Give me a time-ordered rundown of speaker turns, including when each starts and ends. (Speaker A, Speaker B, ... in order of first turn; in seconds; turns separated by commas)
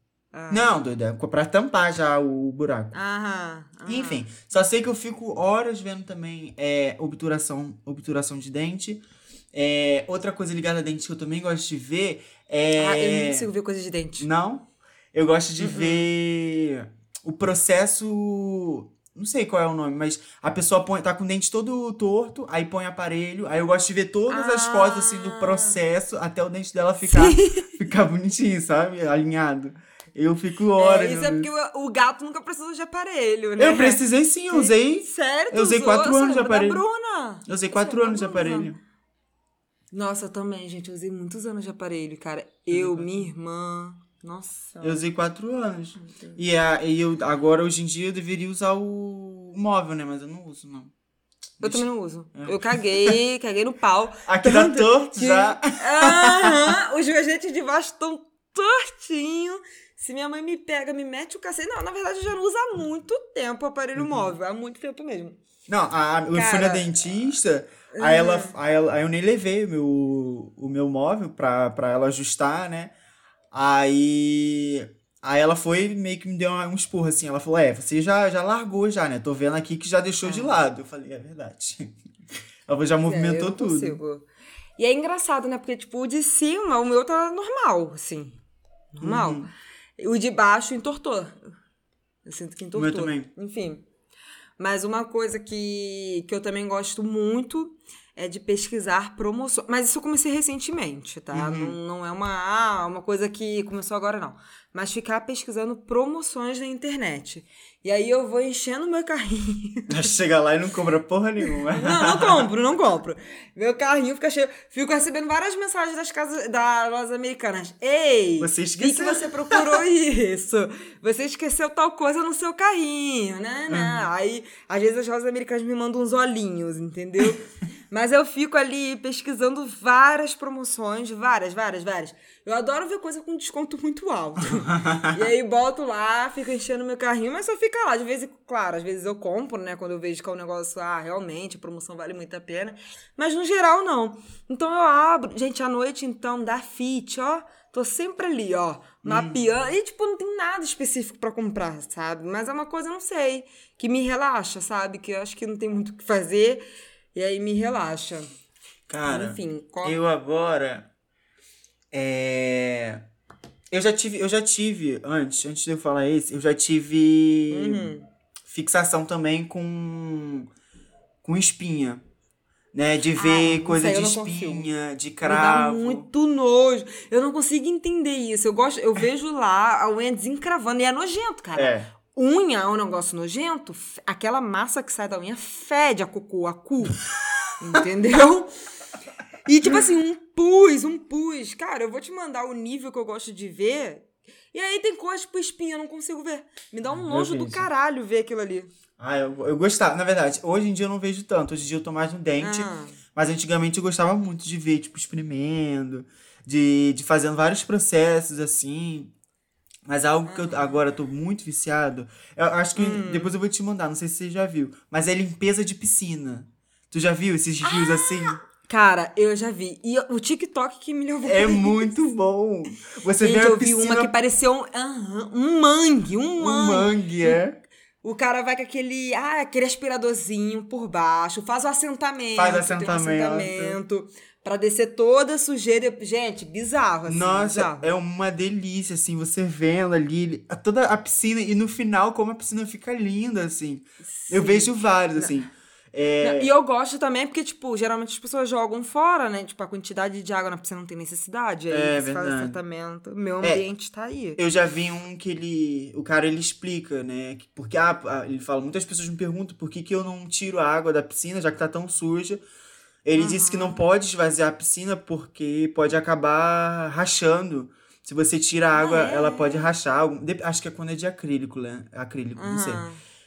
Speaker A: 0.3-0.7, Speaker B: 0.5-2.9, Speaker A: 2.9-4.3, Speaker B: 3.9-13.5, Speaker A: 12.8-14.3, Speaker B: 14.2-31.5, Speaker A: 15.6-16.1, Speaker A: 24.3-25.8, Speaker A: 27.0-27.8, Speaker A: 30.8-38.7, Speaker B: 33.6-36.8, Speaker B: 37.5-38.8, Speaker A: 39.9-45.0, Speaker B: 42.7-43.3, Speaker B: 44.8-50.9, Speaker A: 46.0-46.4, Speaker B: 51.6-53.2, Speaker A: 51.6-65.4, Speaker B: 54.3-56.7, Speaker B: 64.0-64.3, Speaker B: 65.7-72.9, Speaker A: 66.3-66.8, Speaker A: 67.9-68.5, Speaker B: 73.5-82.0, Speaker A: 80.2-80.6, Speaker B: 82.7-84.0, Speaker A: 83.1-84.2, Speaker A: 84.8-88.4, Speaker A: 88.9-89.4, Speaker B: 89.0-89.5, Speaker A: 90.0-91.5, Speaker A: 92.3-93.8, Speaker B: 92.8-93.3, Speaker A: 94.6-110.0, Speaker B: 101.3-101.8, Speaker B: 109.9-112.5, Speaker A: 111.7-156.6, Speaker B: 118.4-119.8, Speaker B: 123.7-124.1, Speaker B: 134.7-135.2, Speaker B: 149.0-149.4, Speaker A: 157.2-158.3, Speaker B: 158.9-160.9, Speaker A: 159.1-160.0, Speaker B: 161.9-163.1, Speaker B: 163.7-167.9, Speaker A: 167.5-168.1, Speaker B: 168.5-170.5, Speaker B: 171.2-172.0, Speaker B: 172.7-176.1, Speaker A: 173.2-174.7, Speaker A: 175.2-187.0, Speaker B: 181.6-181.9, Speaker A: 187.6-188.5, Speaker A: 189.5-198.7, Speaker B: 196.9-197.7, Speaker B: 199.0-209.1, Speaker A: 202.4-203.0, Speaker B: 209.9-218.4, Speaker A: 210.3-210.8, Speaker A: 212.8-213.3, Speaker A: 217.6-222.0, Speaker B: 221.2-224.1, Speaker A: 223.2-227.4, Speaker B: 226.4-227.6, Speaker A: 228.0-237.9, Speaker B: 232.4-233.8, Speaker B: 237.1-246.5, Speaker A: 244.0-245.3, Speaker A: 246.2-254.4, Speaker B: 251.7-252.6, Speaker B: 254.4-262.4, Speaker B: 263.1-272.9, Speaker A: 263.2-263.8, Speaker A: 268.7-269.7, Speaker A: 272.4-273.0